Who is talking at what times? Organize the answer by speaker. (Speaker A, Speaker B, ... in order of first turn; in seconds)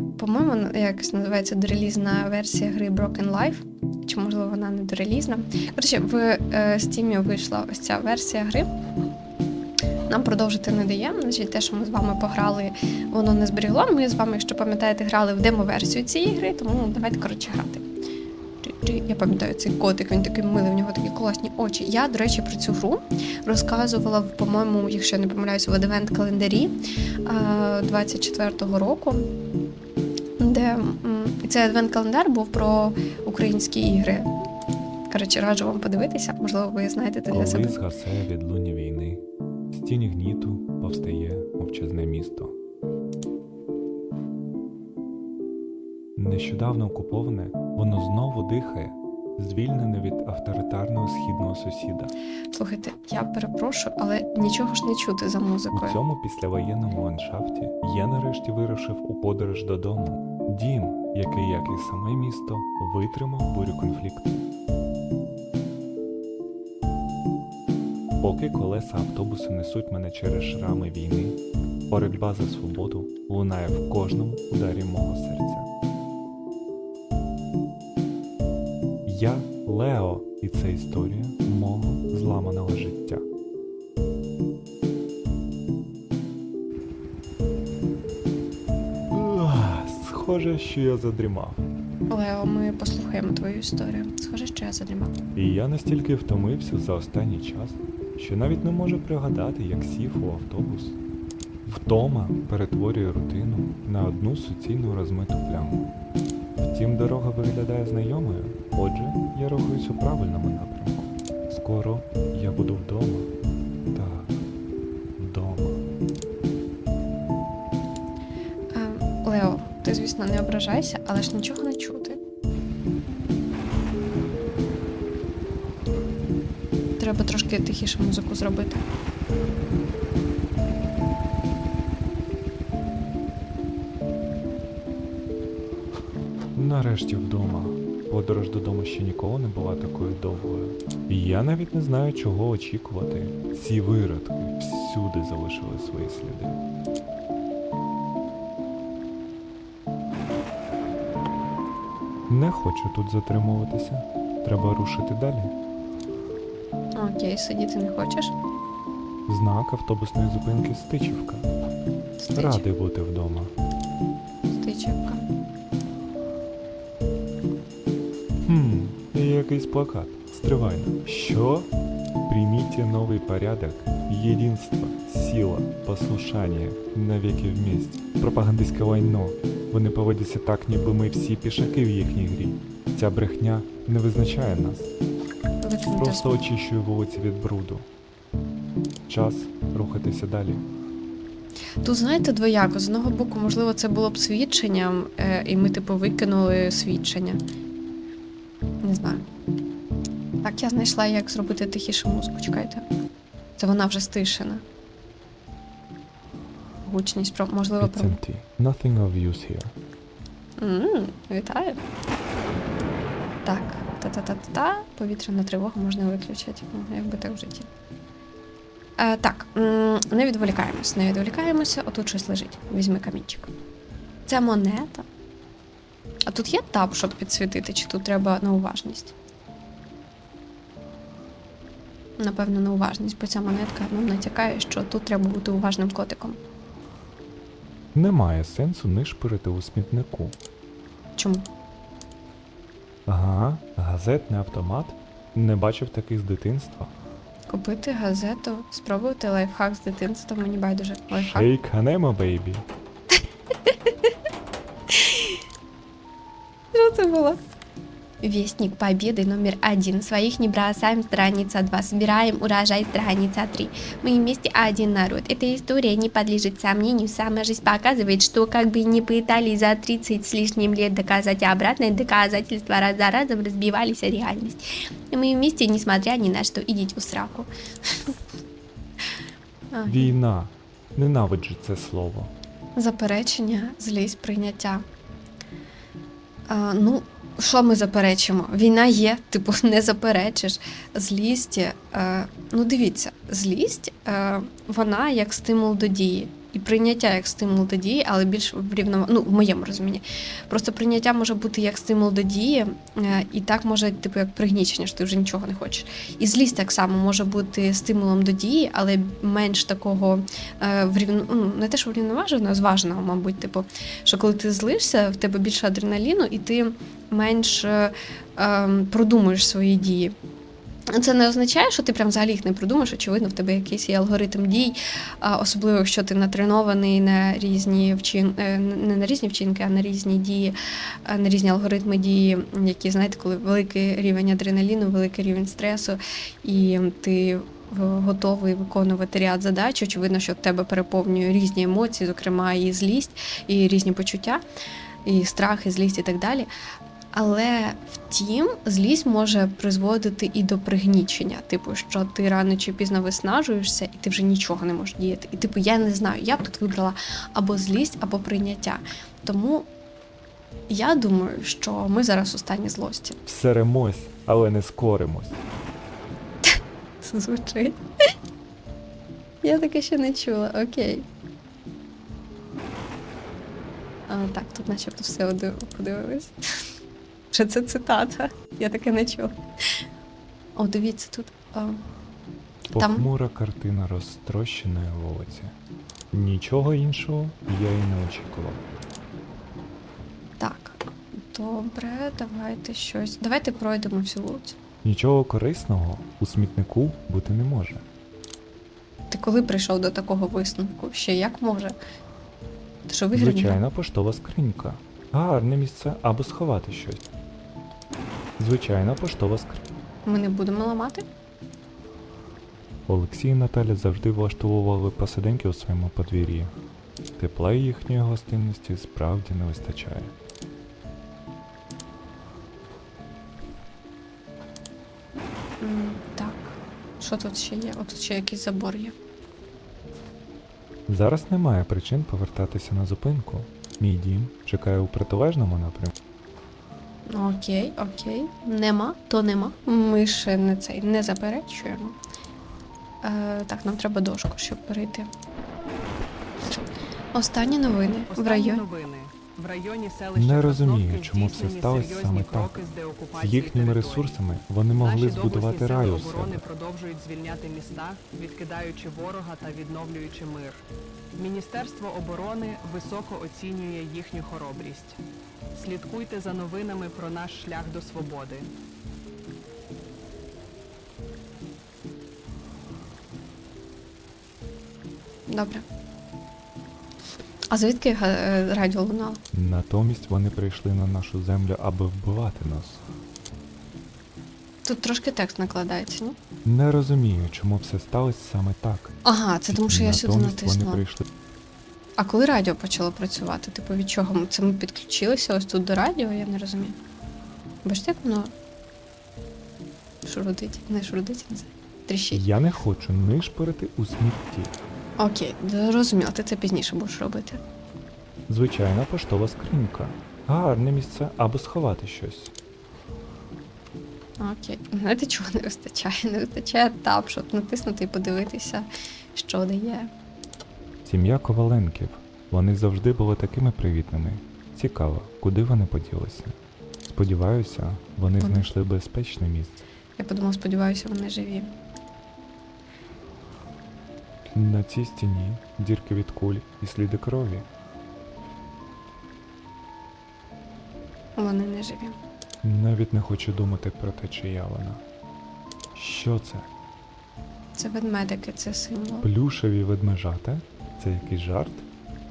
Speaker A: 0.2-8.7, 10.1-17.9, 18.6-29.3, 30.4-34.3, 35.1-37.8, 52.5-56.0, 92.1-95.2, 118.7-122.2, 127.0-128.9, 157.0-158.3, 162.2-162.7, 164.5-165.3, 185.6-186.3, 191.8-197.4, 198.8-199.3, 200.4-202.8, 203.6-204.6, 206.8-208.2, 210.6-211.8, 213.4-217.7, 219.0-223.5, 224.3-225.1, 226.3-229.2, 232.2-236.4, 241.2-241.5, 247.5-251.5, 253.7-253.9, 254.9-255.4, 256.7-257.4, 258.2-278.1, 279.7-280.1, 282.8-284.9, 286.5-320.1, 320.9-344.4, 345.1-346.5, 347.1-359.7, 360.7-363.2, 367.0-367.8, 369.4-371.1, 374.1-376.4, 377.3-379.8, 380.6-381.8, 382.8-383.1, 390.4-394.6, 399.1-401.8, 402.9-403.6, 410.1-411.1, 425.6-428.9, 437.1-442.0, 443.0-445.1, 447.1-448.6, 475.3-475.6, 477.5-479.2, 484.6-486.2, 489.1-490.9, 492.0-496.8, 497.6-498.3, 500.1-502.2, 505.0-507.4, 514.2-519.9, 528.2-528.5, 530.0-531.5, 541.2-542.0, 547.5-549.1
Speaker B: 37.3-42.5, 46.2-52.1, 55.7-64.4, 68.2-75.7, 79.0-83.2, 89.1-91.7, 95.3-101.0, 101.7-105.9, 106.6-113.3, 113.9-114.4, 115.2-115.8, 136.6-146.6, 152.3-155.5, 159.3-161.5, 162.4-163.5, 168.5-171.7, 172.3-184.9, 185.9-187.9, 189.1-190.6, 207.8-209.7, 237.9-240.4, 243.1-246.9, 251.1-252.7, 279.9-282.3, 363.3-365.4, 382.7-385.6, 386.1-388.6, 394.8-397.9, 403.1-407.1, 408.4-409.6, 412.9-416.5, 417.2-420.1, 430.9-435.9, 450.1-452.6, 453.1-456.5, 479.3-482.8, 486.4-488.9, 489.5-491.1, 502.1-504.5, 508.3-512.3, 520.9-529.6, 534.3-537.5, 542.4-544.8, 545.8-546.5, 549.0-551.7
Speaker C: 448.1-454.2, 454.8-460.6, 461.2-465.0, 465.5-468.5